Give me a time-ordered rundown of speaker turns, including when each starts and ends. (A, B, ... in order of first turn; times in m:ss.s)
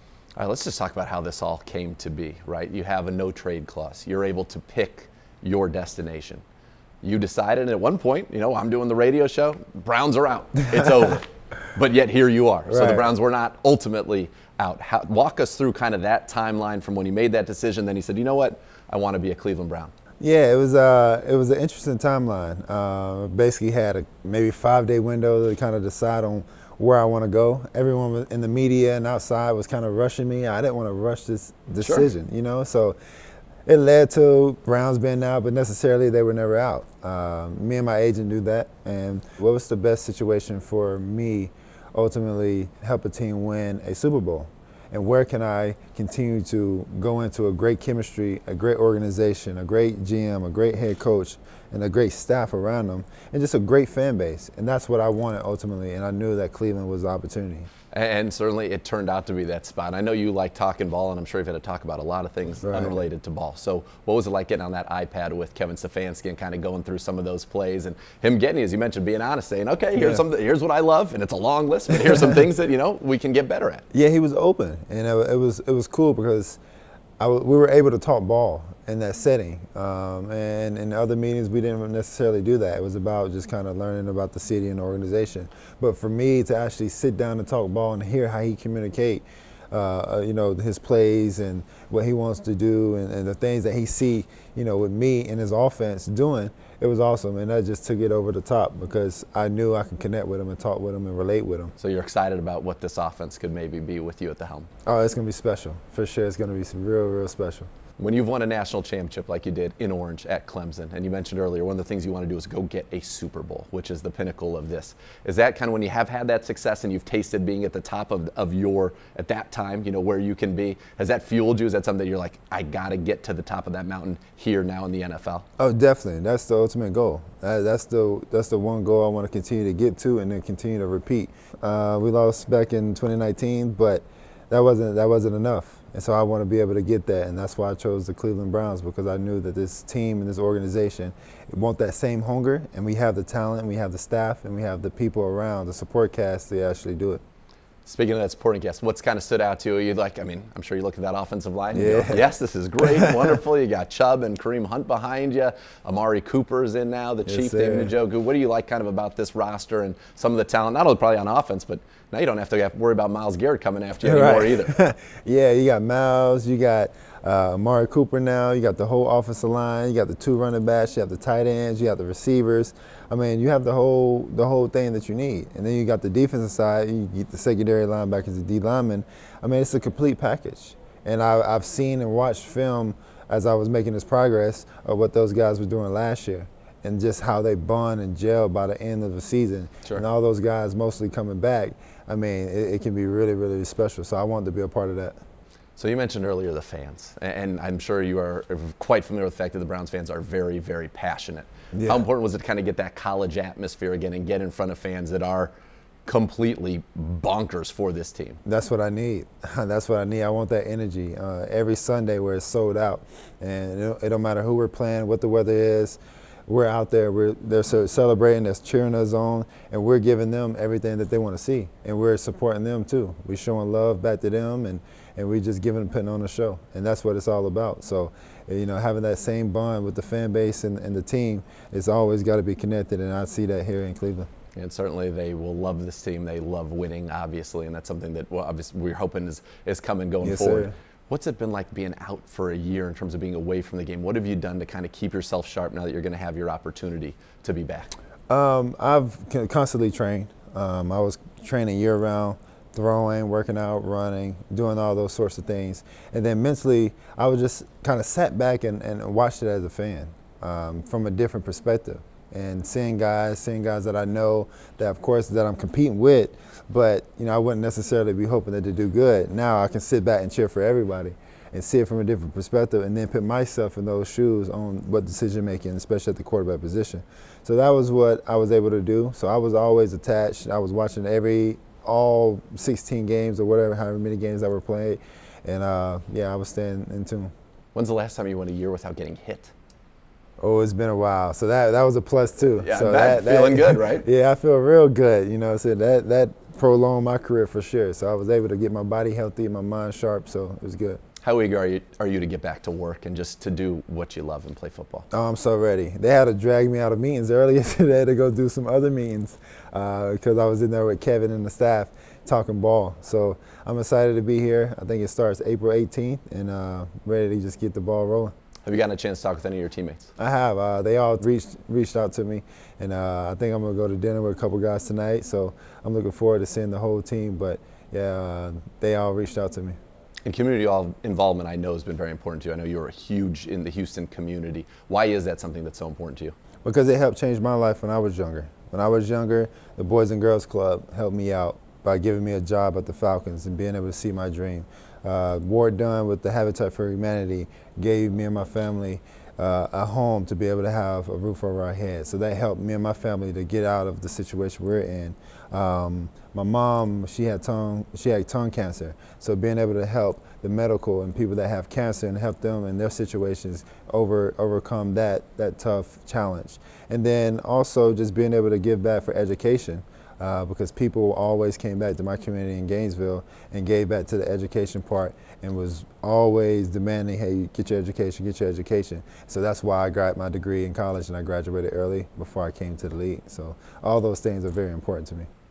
0:00.4-0:06.4 A
0:07.0-0:19.9 A
0:12.7-0:13.1 B
0:20.2-0:33.0 B
0:31.8-0:32.1 A
0:33.6-0:57.7 B
0:57.9-1:13.8 A
1:02.6-1:03.0 B
1:10.0-1:10.2 B
1:13.9-1:16.6 B
1:17.2-1:41.7 B
1:41.8-1:44.7 A
1:44.8-1:47.7 B
1:48.0-2:05.4 A
2:05.6-2:27.2 B
2:27.8-2:44.7 A
2:31.7-2:32.3 B
2:32.8-2:33.3 B
2:37.2-2:37.9 B
2:44.0-3:15.2 B
3:15.8-3:25.5 A
3:21.7-3:22.1 B
3:26.0-3:28.4 A
3:28.4-3:54.3 B
3:54.5-4:07.9 A
4:00.2-4:00.7 B
4:08.3-4:47.3 B
4:47.7-4:49.5 A
4:50.4-5:01.0 B
4:52.6-4:54.0 A
5:01.2-5:05.1 A
5:05.1-5:18.3 B
5:18.6-5:20.1 A
5:20.2-5:29.8 B
5:30.2-5:36.3 A
5:36.6-6:25.3 B